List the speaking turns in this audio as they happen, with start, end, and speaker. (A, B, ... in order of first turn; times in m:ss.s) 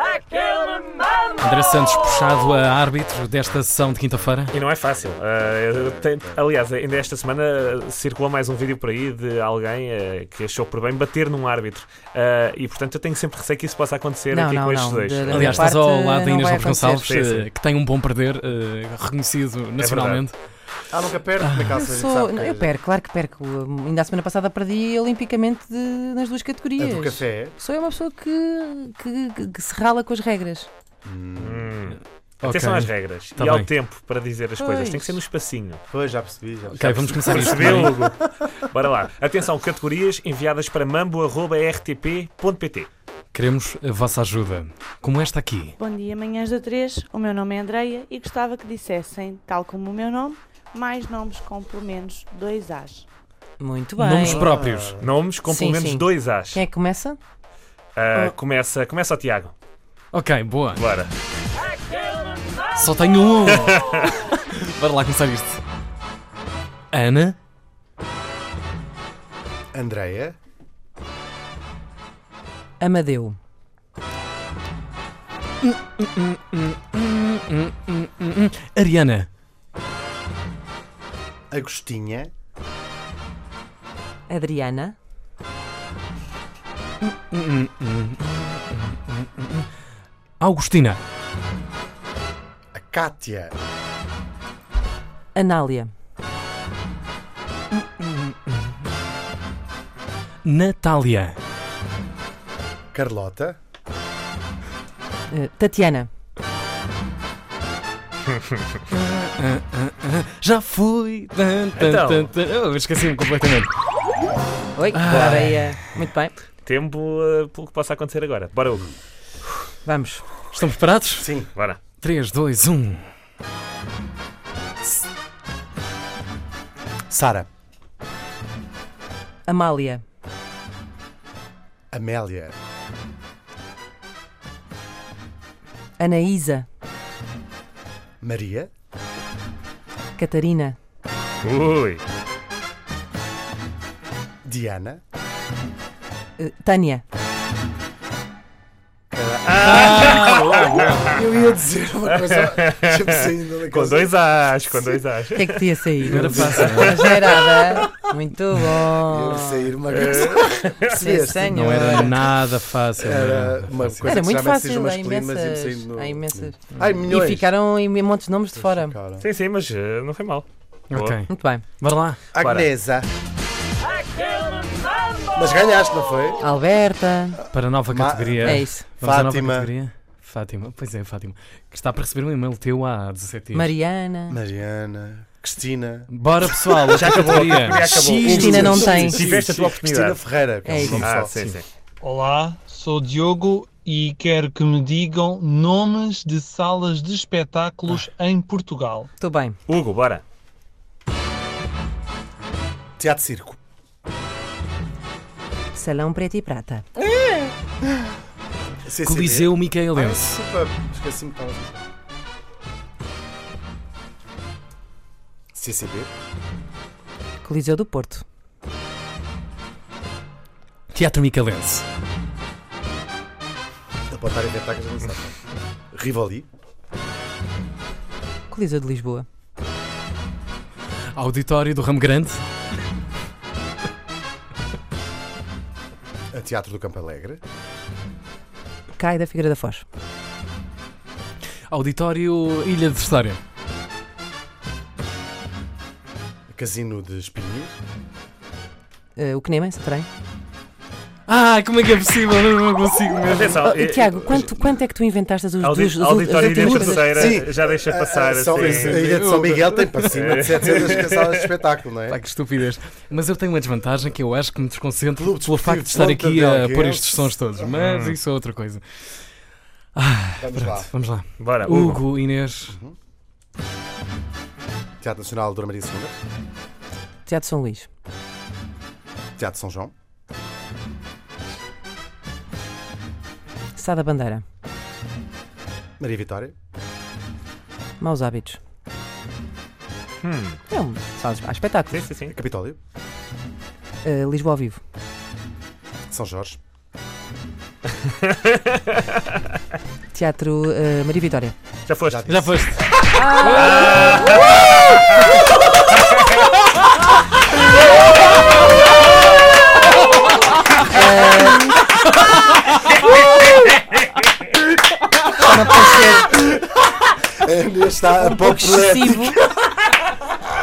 0:01.4-0:04.5 A
0:04.5-0:15.7 B
0:05.4-0:06.4 C
0:14.3-0:17.2 D
0:15.3-0:20.3 A
0:17.1-0:17.5 B
0:19.8-0:20.2 B
0:20.9-0:22.7 C
0:21.4-0:21.7 A
0:21.8-0:30.7 D
0:26.8-0:27.6 C
0:31.0-0:31.7 C
0:31.4-0:35.8 B
0:32.4-0:33.7 A
0:34.6-0:35.2 D
0:35.9-0:38.1 C
0:36.7-0:38.0 A
0:37.2-0:38.2 B
0:38.7-0:42.9 B
0:43.3-0:45.8 A
0:45.8-0:53.1 E
0:53.6-0:54.5 D
0:54.0-0:55.0 A
0:54.3-0:55.1 C
0:55.0-0:56.6 B
0:55.4-0:57.2 D
0:58.0-0:59.5 B
1:00.1-1:00.8 A
1:00.8-1:01.1 B
1:02.7-1:05.6 A
1:06.9-1:07.4 A
1:09.7-1:10.4 C
1:12.8-1:13.4 D
1:15.6-1:19.3 A
1:21.5-1:22.3 C
1:24.3-1:25.0 D
1:27.0-1:29.7 A
1:30.4-1:31.0 A
1:32.7-1:33.6 C
1:35.4-1:35.9 D
1:37.7-1:38.5 A
1:40.4-1:41.4 A
1:42.9-1:43.6 C
1:45.3-1:46.1 D
1:48.9-1:53.7 A
1:51.8-1:52.3 B
1:54.8-1:56.3 D
1:54.9-1:55.9 A
1:56.6-1:59.0 B
1:59.8-2:00.4 D
2:00.5-2:01.4 A
2:01.2-2:01.5 C
2:02.0-2:03.0 A
2:07.1-2:07.5 C
2:09.5-2:10.0 D
2:11.9-2:12.6 C
2:16.0-2:16.7 D
2:18.2-2:18.7 C
2:20.2-2:20.8 D
2:21.4-2:22.0 B
2:24.4-2:25.0 C
2:26.4-2:27.0 D
2:29.1-2:34.1 C
2:29.5-2:31.1 B
2:29.6-2:31.1 A
2:32.1-2:35.6 B
2:35.3-2:39.7 D
2:36.1-2:37.0 A
2:36.1-2:37.3 C
2:36.2-2:36.9 B
2:38.9-2:42.2 C
2:39.9-2:41.0 B
2:40.8-2:42.2 D
2:41.5-2:44.2 A
2:43.0-2:47.5 C
2:44.0-2:49.0 D
2:48.6-2:49.3 C
2:49.2-2:51.2 B
2:50.9-2:52.2 A
2:51.3-2:51.6 D
2:52.3-2:53.1 C
2:52.4-2:52.7 B
2:55.4-2:56.5 C
2:56.4-2:57.4 D
2:57.5-3:03.7 A
2:57.9-2:59.7 C
2:58.4-2:58.9 D
3:03.5-3:04.4 D
3:04.3-3:06.1 C
3:06.1-3:09.5 A
3:06.9-3:10.2 B
3:08.2-3:09.2 D
3:09.0-3:11.3 C
3:10.6-3:11.0 D
3:10.8-3:11.6 A
3:10.9-3:11.7 B
3:12.0-3:19.1 F
3:19.2-3:19.6 D
3:19.7-3:20.2 B
3:23.0-3:23.6 C
3:25.7-3:26.9 D
3:28.8-3:31.8 C
3:29.0-3:30.4 A
3:35.5-3:36.1 C
3:37.4-3:38.2 D
3:40.9-3:41.8 A
3:44.1-3:45.4 C
3:45.9-3:46.5 C
3:48.5-3:49.2 D
3:51.2-3:52.4 A
3:56.3-3:57.4 C
3:59.0-3:59.9 D
4:01.7-4:03.4 A
4:06.5-4:07.8 C
4:09.2-4:10.1 D
4:11.3-4:13.8 A
4:13.3-4:14.6 B
4:13.7-4:17.4 D
4:15.6-4:19.1 B
4:16.4-4:22.2 C
4:18.6-4:20.8 A
4:20.1-4:21.4 B
4:22.1-4:28.8 A
4:25.2-4:27.8 C
4:27.7-4:28.2 B
4:30.0-4:32.8 A
4:30.4-4:30.9 C
4:31.4-4:32.0 B
4:32.7-4:33.0 C
4:35.0-4:36.2 C
4:37.3-4:37.9 D
4:39.4-4:39.9 C
4:43.8-4:44.4 D
4:46.0-4:46.6 C
4:48.0-4:48.6 D
4:50.2-4:50.6 B
4:50.7-4:52.1 D
4:51.9-4:52.3 B
4:52.3-4:52.8 C
4:54.0-4:54.8 D
4:56.1-4:56.6 C
4:58.2-4:59.0 B
5:00.1-5:01.5 D
5:01.9-5:02.5 B
5:02.0-5:02.5 C
5:02.3-5:04.2 A
5:03.1-5:04.1 D
5:03.5-5:05.1 B
5:10.8-5:11.7 D
5:15.4-5:16.6 D
5:16.9-5:19.7 C
5:18.2-5:19.4 D